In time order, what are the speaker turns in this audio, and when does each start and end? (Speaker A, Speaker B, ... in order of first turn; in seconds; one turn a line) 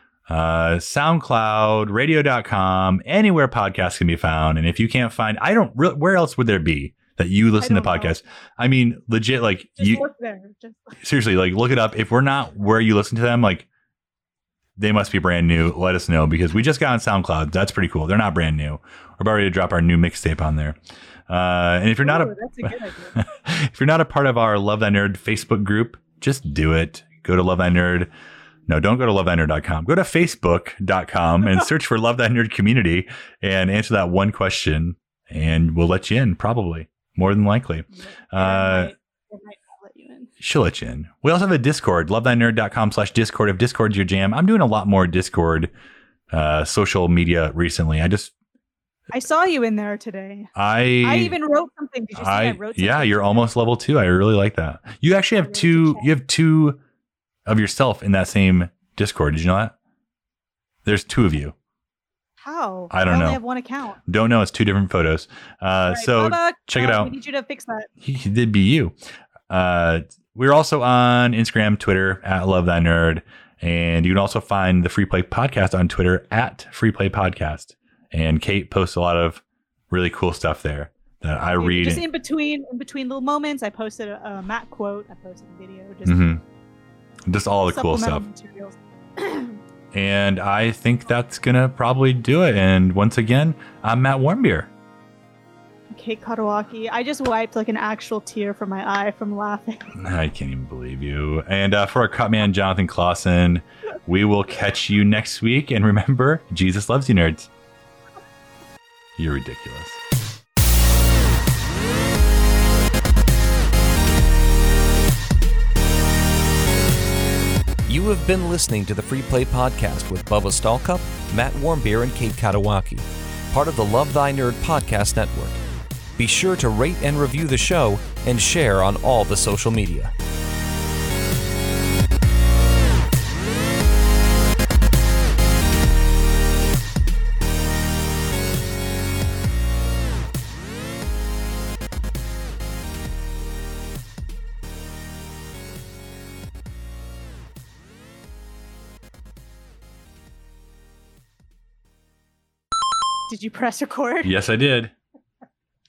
Speaker A: 0.3-10.1
Speaker B: 7.6-8.2
Speaker B: 9.8-11.0
Speaker A: 11.0-13.7
Speaker A: 14.8-28.1
Speaker B: 22.0-23.2
Speaker A: 28.7-38.9
Speaker B: 37.9-40.3
Speaker A: 40.4-45.7
Speaker A: 46.3-48.3
Speaker B: 49.1-53.5
Speaker A: 50.6-51.4
Speaker A: 52.1-56.8
Speaker B: 55.4-56.1
Speaker A: 57.5-59.7
Speaker A: 60.9-61.5
Speaker B: 62.4-64.0
Speaker A: 62.9-63.4
Speaker A: 64.1-67.1
Speaker B: 65.9-67.9
Speaker A: 68.0-69.0
Speaker A: 69.5-82.0
Speaker B: 81.6-86.3
Speaker A: 86.0-86.4
Speaker A: 87.3-88.2
Speaker B: 87.7-89.6
Speaker A: 89.9-94.7
Speaker B: 95.9-99.9
Speaker A: 99.9-107.5
Speaker A: 109.2-110.0
Speaker C: 117.9-125.6
Speaker C: 126.2-130.1
Speaker B: 153.3-154.3
Speaker A: 154.2-154.9